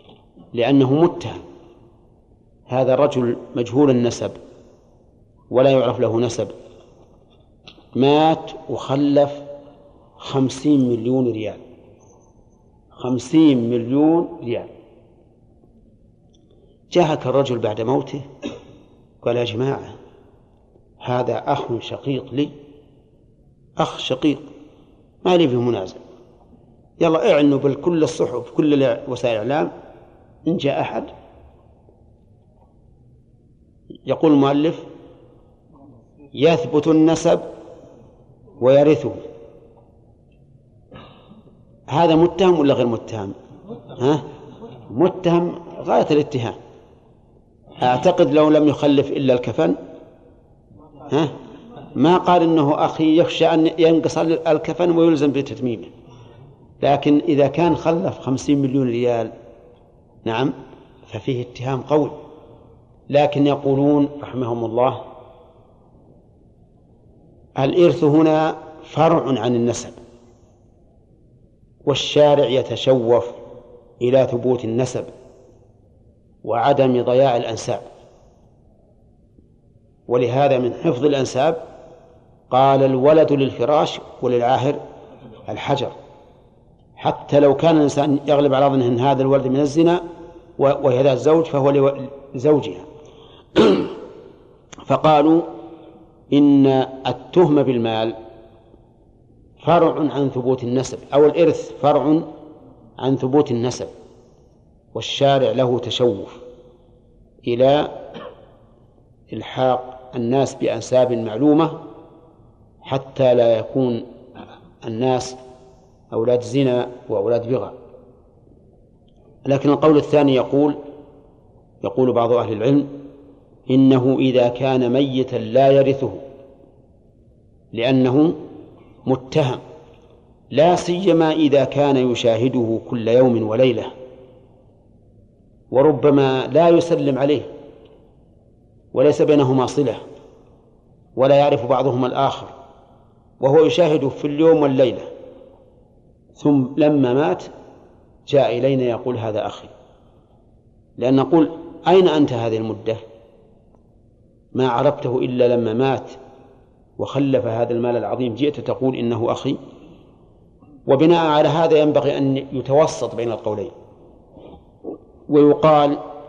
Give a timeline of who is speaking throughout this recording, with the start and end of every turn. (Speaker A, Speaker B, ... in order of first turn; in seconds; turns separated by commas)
Speaker A: 0.5-1.4, Speaker A: 2.7-4.4, Speaker A: 5.5-6.6, Speaker A: 8.0-9.4, Speaker A: 10.2-11.6, Speaker A: 13.0-14.7, Speaker A: 16.9-18.3, Speaker A: 19.2-20.0, Speaker A: 21.0-22.5, Speaker A: 23.8-24.5, Speaker A: 25.2-26.0, Speaker A: 27.0-29.7, Speaker A: 30.5-31.1, Speaker A: 34.1-34.9, Speaker A: 36.3-37.5, Speaker A: 38.6-39.2, Speaker A: 41.9-43.4, Speaker A: 44.0-44.3, Speaker A: 44.9-46.6, Speaker A: 47.8-49.8, Speaker A: 51.1-51.4, Speaker A: 52.0-55.9, Speaker A: 56.8-59.3, Speaker A: 60.2-62.2, Speaker A: 63.1-65.0, Speaker A: 67.6-70.0, Speaker A: 71.8-73.4, Speaker A: 74.0-75.1, Speaker A: 76.4-77.9, Speaker A: 80.1-81.6, Speaker A: 82.5-84.8, Speaker A: 85.5-86.0, Speaker A: 87.0-90.0, Speaker A: 90.6-92.9, Speaker A: 93.6-94.0, Speaker A: 94.9-95.5, Speaker A: 96.3-98.2, Speaker A: 99.6-102.3, Speaker A: 103.0-103.9, Speaker A: 104.9-106.4, Speaker A: 107.4-108.0, Speaker A: 109.3-111.8, Speaker A: 112.8-114.1, Speaker A: 114.8-115.4, Speaker A: 116.1-117.8, Speaker A: 119.5-120.8, Speaker A: 121.8-123.0, Speaker A: 123.7-126.2, Speaker A: 127.7-128.4, Speaker A: 129.1-129.6, Speaker A: 130.5-133.9, Speaker A: 135.7-137.5, Speaker A: 138.9-140.0, Speaker A: 141.2-142.5, Speaker A: 143.4-145.1, Speaker A: 146.4-147.5, Speaker A: 148.3-149.7, Speaker A: 151.0-153.0, Speaker A: 154.5-156.2, Speaker A: 157.0-159.6, Speaker A: 160.9-163.7, Speaker A: 165.3-166.0